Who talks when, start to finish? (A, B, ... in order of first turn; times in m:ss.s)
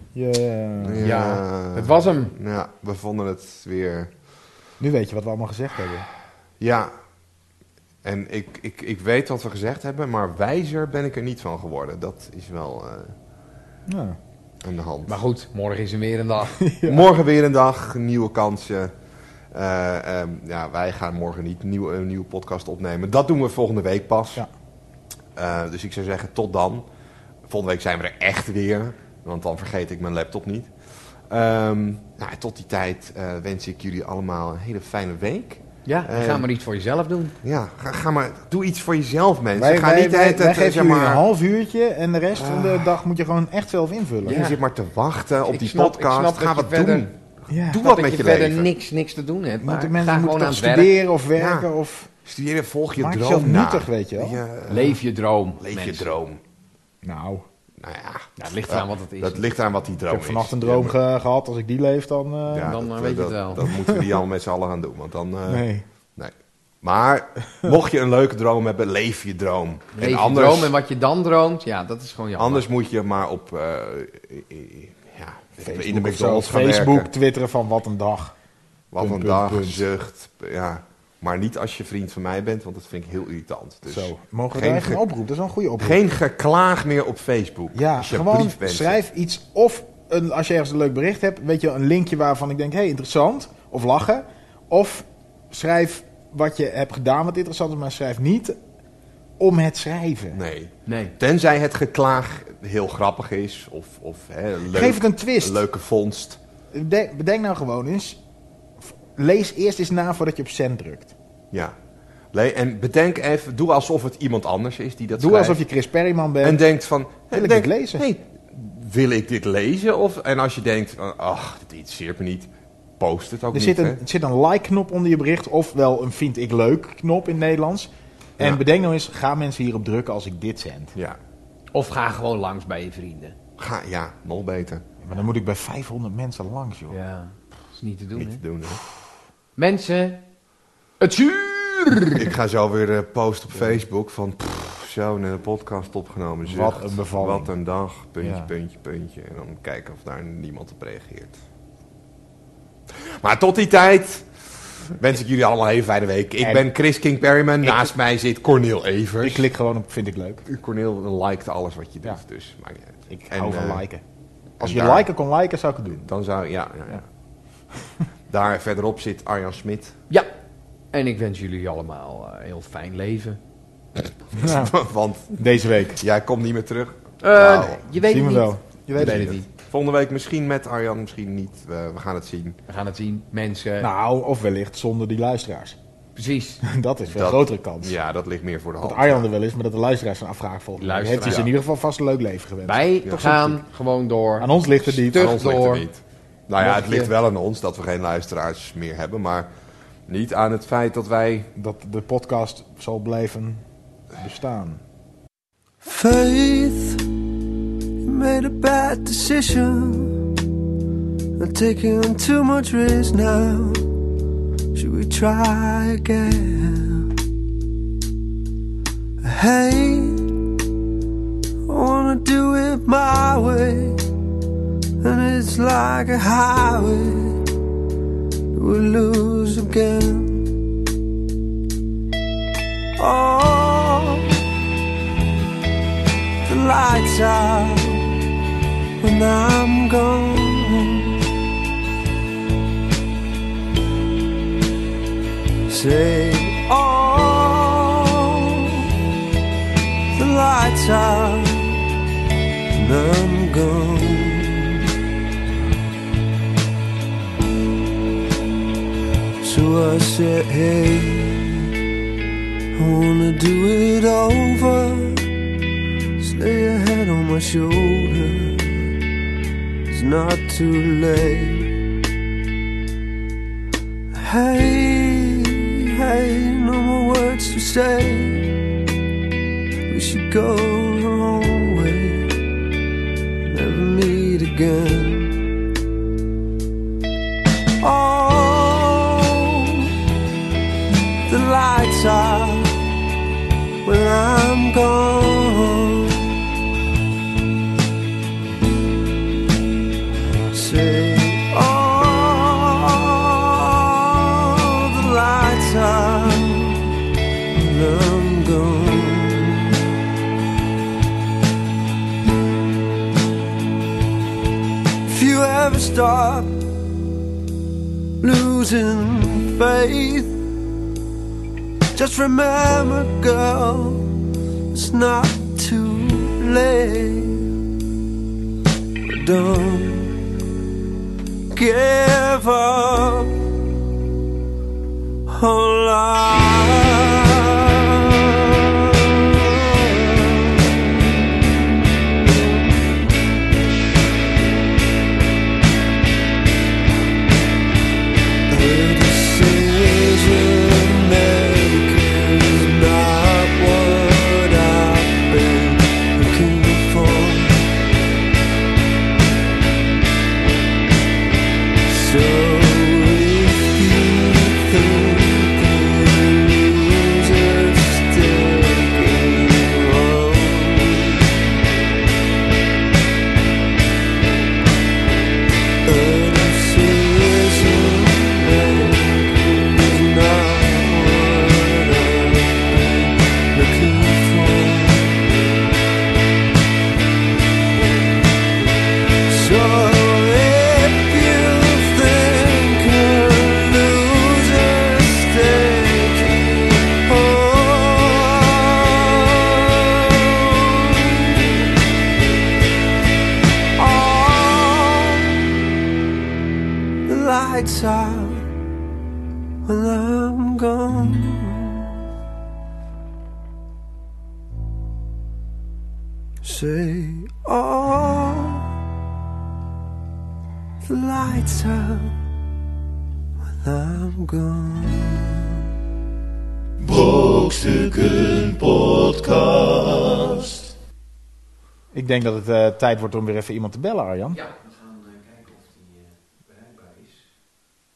0:00.1-0:01.1 A
0:00.8-0:04.1 B
0:01.0-0:02.3 C
0:04.8-0:06.1 A
0:06.6-0:06.9 B
0:08.0-0:13.1 B
0:13.9-0:14.2 A
0:14.6-0:15.2 B
0:15.1-0:16.6 C
0:16.6-0:17.1 A
0:16.9-0:18.9 B
0:19.5-0:24.4 B
0:25.4-0:26.8 B
0:27.5-0:30.7 B
0:31.3-0:36.4 B
0:35.9-0:37.4 C
0:37.4-0:41.2 B
0:39.6-0:44.4 A
0:42.3-0:42.9 B
0:44.2-0:48.7 B
0:44.2-0:44.6 C
0:45.5-0:47.1 C
0:47.5-0:47.8 A
0:47.7-0:51.0 C
0:49.6-0:52.1 A
0:51.4-0:51.7 B
0:52.3-0:55.0 B
0:53.0-0:54.4 A
0:54.7-0:56.1 C
0:55.6-0:56.4 B
0:57.0-0:57.5 A
0:57.8-1:01.0 B
0:58.4-0:59.5 C
1:00.1-1:02.8 A
1:02.5-1:10.8 B
1:02.7-1:03.6 C
1:03.6-1:04.1 A
1:05.5-1:05.8 A
1:10.0-1:12.6 C
1:12.4-1:17.1 B
1:15.6-1:18.4 A
1:18.9-1:25.0 B
1:19.0-1:19.8 A
1:23.9-1:26.0 A
1:25.8-1:29.0 B
1:27.8-1:38.6 A
1:39.4-1:40.4 A
1:40.3-1:46.4 B
1:40.9-1:41.2 C
1:44.7-1:45.6 A
1:46.7-1:48.2 A
1:48.8-1:51.1 A
1:52.3-1:55.6 B
1:55.2-1:56.6 A
1:56.4-2:04.0 B
1:57.3-1:58.0 A
2:03.5-2:10.9 A
2:11.7-2:13.4 C
2:13.6-2:14.8 B
2:15.0-2:17.0 A
2:16.9-2:18.4 C
2:18.2-2:18.8 B
2:19.6-2:20.2 C
2:21.0-2:22.3 C
2:22.2-2:31.4 B
2:23.6-2:23.8 A
2:26.4-2:27.5 A
2:28.2-2:28.5 A
2:33.0-2:34.3 B
2:35.0-2:39.5 B
2:39.2-2:40.4 A
2:40.5-2:43.8 B
2:43.1-2:44.0 A
2:44.6-2:45.1 B
2:44.6-2:46.0 A
2:46.0-2:47.1 B
2:48.3-2:50.0 B
2:50.9-2:53.4 C
2:54.3-2:57.8 B
2:54.4-2:54.7 A
2:55.3-2:56.0 A
2:57.2-2:59.5 C
2:58.0-2:59.3 A
2:59.0-3:02.6 B
3:02.7-3:03.9 C
3:03.8-3:05.8 A
3:06.2-3:06.6 C
3:06.6-3:08.0 A
3:07.1-3:09.3 B
3:08.8-3:13.6 A
3:10.8-3:11.5 C
3:12.6-3:15.9 C
3:14.4-3:15.3 A
3:15.1-3:19.5 B
3:16.6-3:17.1 C
3:20.1-3:21.5 B
3:21.6-3:23.6 A
3:24.2-3:24.8 A
3:25.8-3:27.1 D
3:28.0-3:30.2 D
3:31.4-3:33.8 D
3:34.7-3:37.1 D
3:39.2-3:40.2 D
3:41.7-3:44.0 D
3:45.0-3:47.4 D
3:48.5-3:50.4 D
3:53.0-3:54.3 D
3:56.4-3:58.1 D
3:59.0-4:01.2 D
4:05.7-4:08.8 D
4:10.1-4:11.8 D
4:12.7-4:14.8 D
4:19.4-4:21.6 D
4:22.8-4:25.2 D
4:26.2-4:28.8 D
4:29.9-4:31.7 D
4:34.1-4:38.5 D
4:39.9-4:42.4 D
4:43.5-4:45.4 D
4:47.8-4:49.9 D
4:51.3-4:52.8 D
4:53.8-4:56.3 D
5:00.4-5:06.9 D
5:07.5-5:09.7 D
5:15.1-5:16.6 D
5:18.2-5:20.3 D
5:22.0-5:24.1 D
5:24.7-5:27.5 D
5:29.1-5:30.2 D
5:31.5-5:33.4 D
5:35.3-5:41.0 D
5:48.5-5:57.6 D
6:01.8-6:11.3 D
6:15.8-6:25.2 D
6:29.3-6:41.7 D
6:43.8-6:45.4 D
6:47.1-6:48.5 D
6:49.6-6:51.9 D
6:56.4-6:58.7 D
7:00.8-7:02.2 D
7:03.4-7:05.6 D
7:06.8-7:10.7 E
7:11.9-7:14.4 A
7:14.3-7:17.2 C